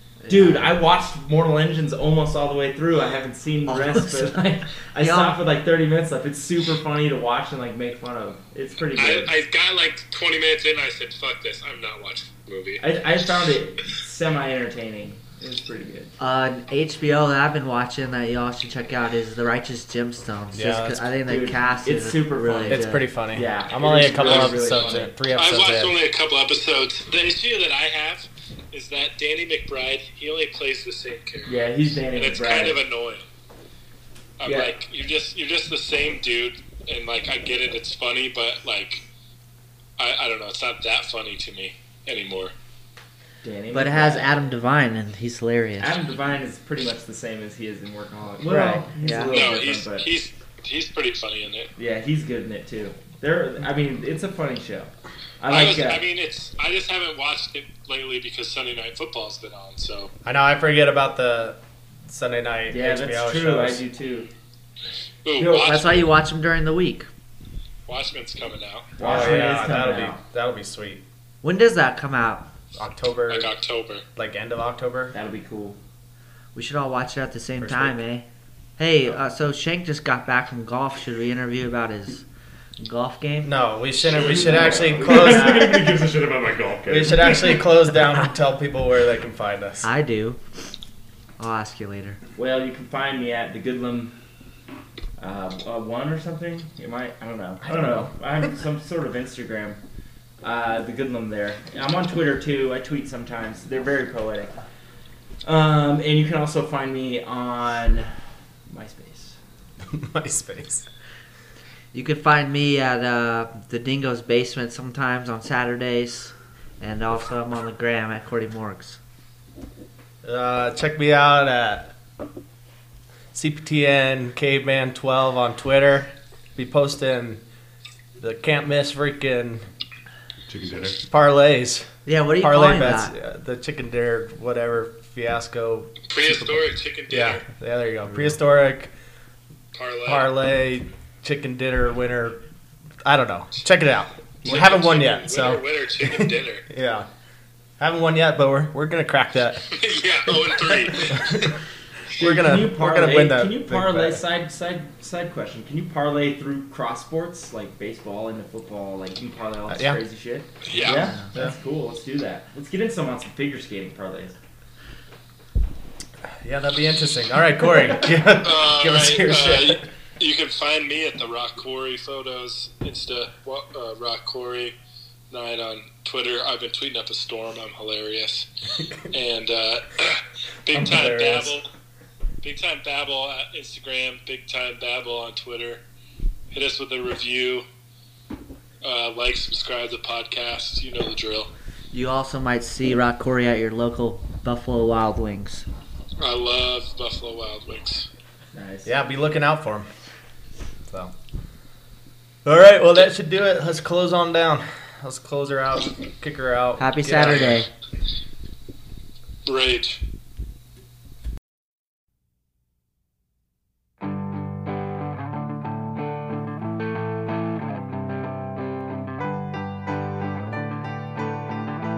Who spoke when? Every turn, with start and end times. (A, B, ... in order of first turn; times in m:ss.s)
0:00.2-0:00.8 A
0:00.3-0:09.3 B
0:03.7-0:05.4 A
0:08.9-0:12.8 C
0:12.8-0:16.1 B
0:16.2-0:23.0 A
0:20.5-0:21.1 D
0:21.2-0:25.1 B
0:22.6-0:25.9 D
0:24.1-0:24.8 C
0:25.3-0:31.5 C
0:31.5-0:32.8 B
0:32.1-0:33.3 C
0:34.4-0:39.0 C
0:34.4-0:34.7 B
0:40.0-0:42.5 C
0:43.4-0:44.3 B
0:43.7-0:46.0 A
0:45.8-0:50.1 B
0:48.4-0:49.4 A
0:49.3-0:51.7 C
0:51.8-0:56.0 B
0:55.5-1:00.1 C
1:00.2-1:03.8 D
1:02.7-1:04.3 B
1:05.2-1:06.0 C
1:05.4-1:05.8 B
1:05.4-1:07.1 A
1:07.9-1:09.0 C
1:09.0-1:10.2 B
1:09.0-1:11.0 D
1:11.4-1:12.5 A
1:12.7-1:13.5 D
1:13.3-1:14.0 C
1:14.2-1:15.1 D
1:15.1-1:15.8 B
1:16.5-1:18.2 A
1:17.6-1:18.0 D
1:18.8-1:22.2 A
1:22.8-1:23.5 A
1:23.4-1:25.8 D
1:24.1-1:26.1 B
1:24.6-1:27.6 E
1:26.9-1:29.9 D
1:29.8-1:30.4 A
1:31.4-1:32.2 A
1:32.4-1:34.1 B
1:35.2-1:39.8 B
1:37.6-1:38.1 D
1:40.4-1:44.6 B
1:45.4-1:48.1 B
1:48.7-1:49.4 B
1:49.9-1:50.8 D
1:51.9-1:59.0 A
2:00.2-2:01.9 D
2:03.3-2:07.4 D
2:08.2-2:09.6 D
2:10.5-2:11.0 E
2:11.0-2:11.8 D
2:12.0-2:13.1 A
2:12.4-2:16.1 D
2:16.1-2:17.4 C
2:17.1-2:18.9 D
2:19.7-2:20.3 C
2:20.0-2:22.4 D
2:23.0-2:27.1 D
2:24.4-2:26.6 C
2:27.8-2:29.7 D
2:29.7-2:31.5 C
2:31.1-2:31.5 D
2:32.1-2:34.2 D
2:32.1-2:44.4 B
2:39.7-2:40.0 D
2:40.6-2:41.0 C
2:40.9-2:41.2 A
2:46.4-2:49.8 D
2:48.4-2:54.7 C
2:55.3-2:58.5 C
2:59.1-3:01.7 C
3:00.7-3:01.6 D
3:02.4-3:05.8 C
3:06.5-3:07.6 C
3:08.8-3:11.5 C
3:11.9-3:15.6 A
3:16.2-3:18.1 C
3:18.5-3:18.9 B
3:18.8-3:19.9 D
3:20.9-3:21.1 D
3:22.4-3:27.6 D
3:26.8-3:27.7 A
3:29.4-3:30.0 C